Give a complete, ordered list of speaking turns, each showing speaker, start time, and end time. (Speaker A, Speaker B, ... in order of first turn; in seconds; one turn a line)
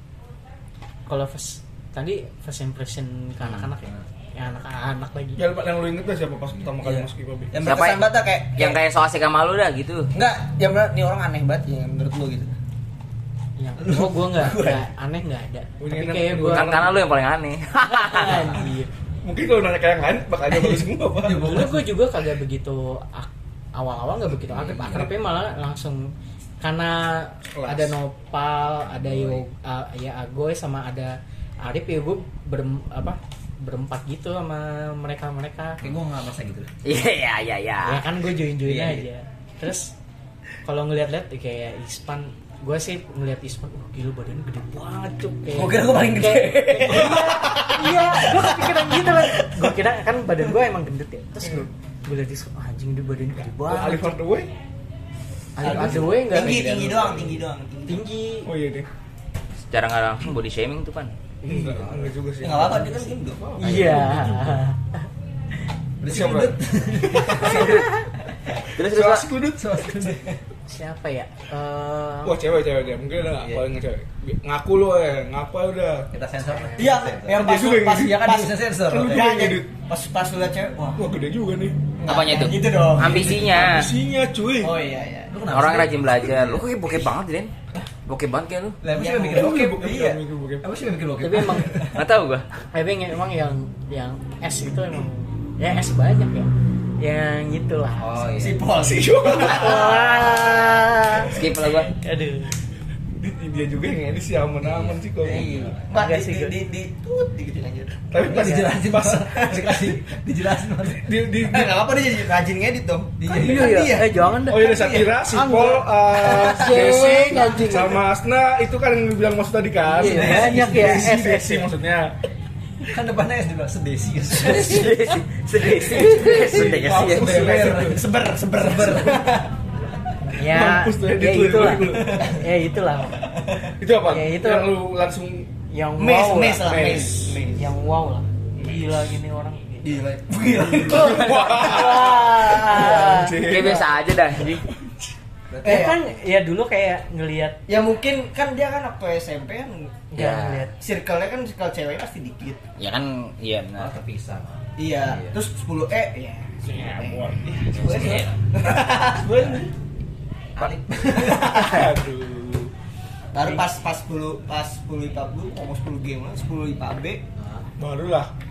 Speaker A: 1.1-5.4
Speaker B: 5.3-7.6
Speaker C: 6.6-7.0
Speaker D: 7.5-8.8
Speaker E: 7.6-10.1
Speaker D: 10.1-12.5
Speaker C: 10.2-11.4
Speaker A: 13.6-16.8
Speaker C: 13.8-14.8
Speaker B: 15.8-17.1
Speaker E: 16.5-18.5
Speaker A: 17.8-18.9
Speaker B: 19.2-21.7
Speaker C: 20.5-21.9
Speaker A: 21.3-35.8
Speaker C: 24.5-25.1
Speaker B: 27.4-28.0
Speaker C: 28.8-29.4
Speaker C: 35.8-36.7
Speaker E: 36.8-38.0
Speaker A: 37.8-39.9
Speaker C: 38.6-39.1
Speaker A: 40.6-54.2
Speaker C: 45.5-47.6
Speaker D: 46.9-47.8
Speaker D: 48.6-49.5
Speaker B: 53.4-54.5
Speaker A: 55.5-57.2
Speaker C: 55.6-56.4
Speaker D: 55.6-58.1
Speaker B: 55.7-55.9
Speaker A: 57.9-58.5
Speaker B: 58.4-58.9
Speaker E: 59.6-61.1
Speaker A: 61.4-61.9
Speaker B: 61.5-64.5
Speaker C: 61.8-62.1
Speaker D: 62.4-63.5
Speaker A: 63.5-65.0
Speaker C: 66.0-67.8
Speaker B: 66.0-67.9
Speaker E: 68.8-69.3
Speaker B: 68.8-70.2
Speaker C: 69.5-70.3
Speaker A: 70.7-72.4
Speaker B: 72.2-76.1
Speaker C: 73.4-73.6
Speaker C: 76.1-79.3
Speaker A: 76.5-76.8
Speaker D: 76.7-81.0
Speaker B: 77.3-78.3
Speaker B: 78.8-79.7
Speaker B: 81.0-81.9
Speaker D: 82.0-83.5
Speaker E: 82.0-83.9
Speaker B: 83.0-84.8
Speaker D: 84.6-85.5
Speaker C: 85.3-86.7
Speaker E: 85.5-87.5
Speaker E: 88.0-88.8
Speaker C: 88.8-90.1
Speaker D: 88.9-90.2
Speaker B: 89.1-90.7
Speaker C: 90.6-92.0
Speaker A: 91.2-91.8
Speaker E: 91.9-92.5
Speaker A: 92.7-98.4
Speaker C: 98.0-98.7
Speaker D: 98.3-101.4
Speaker B: 98.8-100.0
Speaker A: 99.3-101.2
Speaker E: 101.3-101.9
Speaker A: 101.9-102.5
Speaker B: 103.2-105.8
Speaker C: 104.6-105.9
Speaker D: 105.2-108.5
Speaker A: 105.9-106.5
Speaker B: 108.1-109.3
Speaker C: 108.2-111.2
Speaker D: 109.3-109.7
Speaker B: 111.0-112.0
Speaker D: 111.5-114.2
Speaker C: 113.2-114.0
Speaker A: 113.3-118.0
Speaker B: 113.4-113.8
Speaker B: 114.4-122.1
Speaker D: 116.3-117.2
Speaker A: 119.9-121.7
Speaker C: 120.0-121.2
Speaker C: 122.8-125.0
Speaker E: 124.3-127.5
Speaker A: 124.4-124.9
Speaker A: 125.7-126.5
Speaker C: 125.9-129.3
Speaker B: 126.0-128.0
Speaker D: 127.4-129.5
Speaker B: 130.3-132.4
Speaker A: 130.3-133.3
Speaker D: 133.4-133.7
Speaker B: 133.8-135.5
Speaker A: 134.0-134.8
Speaker A: 135.7-140.0
Speaker D: 136.0-137.6
Speaker B: 136.6-137.2
Speaker B: 138.6-139.1
Speaker D: 139.8-141.5
Speaker A: 140.7-143.5
Speaker B: 140.7-143.9
Speaker D: 142.1-143.1
Speaker E: 143.4-144.7
Speaker B: 144.5-145.1
Speaker C: 145.5-146.0
Speaker D: 145.6-146.0
Speaker A: 145.6-147.6
Speaker D: 147.7-150.1
Speaker A: 150.1-150.7
Speaker E: 150.2-150.7
Speaker D: 150.7-152.7
Speaker E: 152.8-153.9
Speaker C: 153.8-155.4
Speaker D: 154.8-159.5
Speaker B: 156.6-159.7
Speaker C: 157.7-158.3
Speaker C: 160.6-161.8
Speaker D: 161.0-161.9
Speaker B: 161.2-162.7
Speaker D: 163.3-167.2
Speaker C: 167.4-167.7
Speaker B: 167.8-168.3